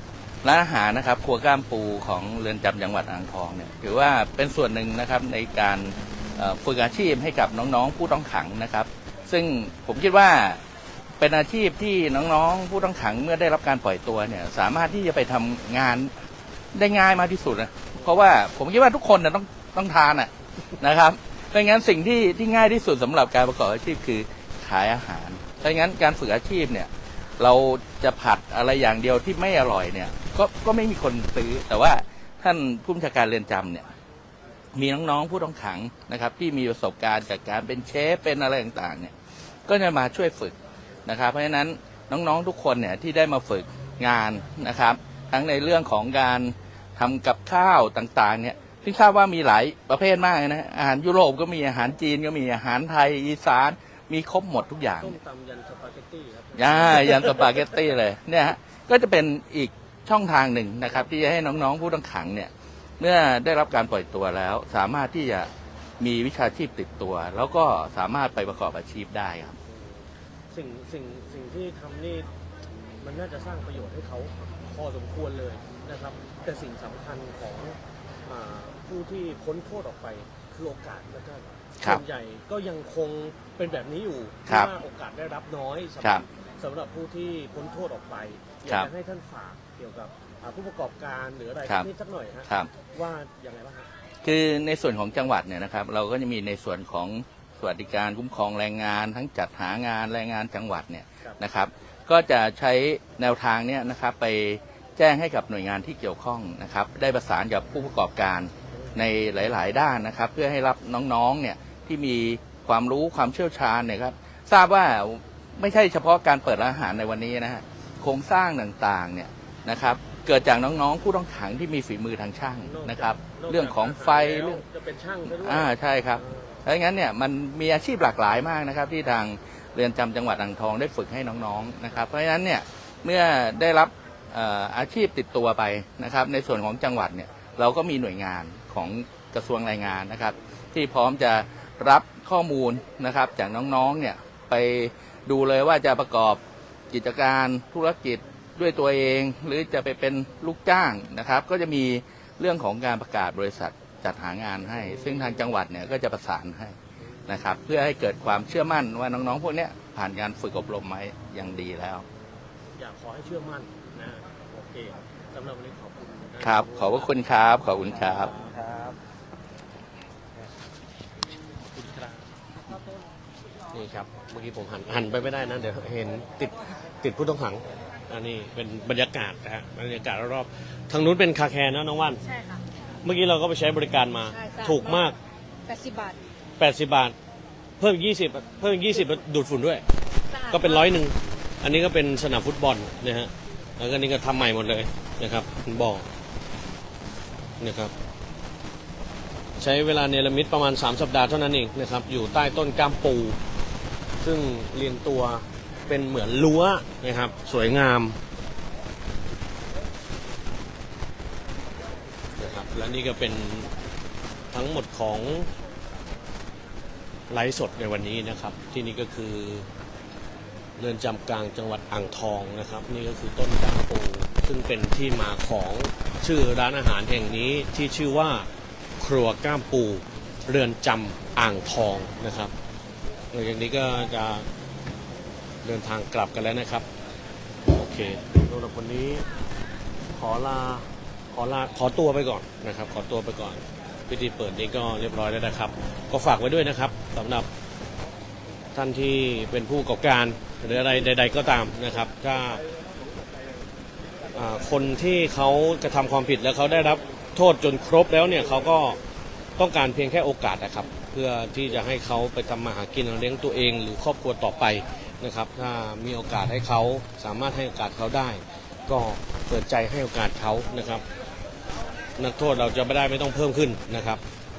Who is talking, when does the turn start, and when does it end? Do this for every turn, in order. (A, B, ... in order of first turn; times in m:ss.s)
0:00.4-0:10.6 A
0:11.2-0:16.1 A
0:16.7-0:33.8 A
0:34.7-0:39.1 A
0:39.7-0:55.2 A
0:54.9-0:57.6 B
0:56.6-1:09.6 A
1:09.7-1:12.3 B
1:13.0-1:33.9 B
1:24.4-1:24.7 A
1:34.2-2:04.6 A
1:48.7-1:49.0 B
2:02.6-2:06.6 B
2:05.3-2:26.4 A
2:26.9-2:36.8 A
2:34.8-2:35.3 B
2:37.3-2:42.0 A
2:42.8-2:47.2 B
2:46.4-2:48.3 A
2:47.9-2:48.9 B
2:51.7-2:52.2 B
2:53.7-3:02.2 B
3:02.2-3:02.6 C
3:03.0-3:05.1 B
3:04.3-3:05.1 C
3:05.6-3:06.2 C
3:06.6-3:07.1 B
3:07.8-3:09.8 B
3:10.3-3:10.9 C
3:10.5-3:16.1 B
3:17.6-3:17.9 B
3:19.6-3:23.4 B
3:24.2-3:28.2 B
3:32.4-3:33.7 B
3:34.5-3:35.5 B
3:37.3-3:39.7 B
3:40.8-3:52.5 B
3:53.3-3:54.5 B
3:55.6-3:56.9 B
3:57.7-3:59.3 B
4:00.1-4:07.5 B
4:08.7-4:12.6 B
4:14.3-4:19.0 B
4:19.6-4:31.0 B
4:32.2-4:34.2 B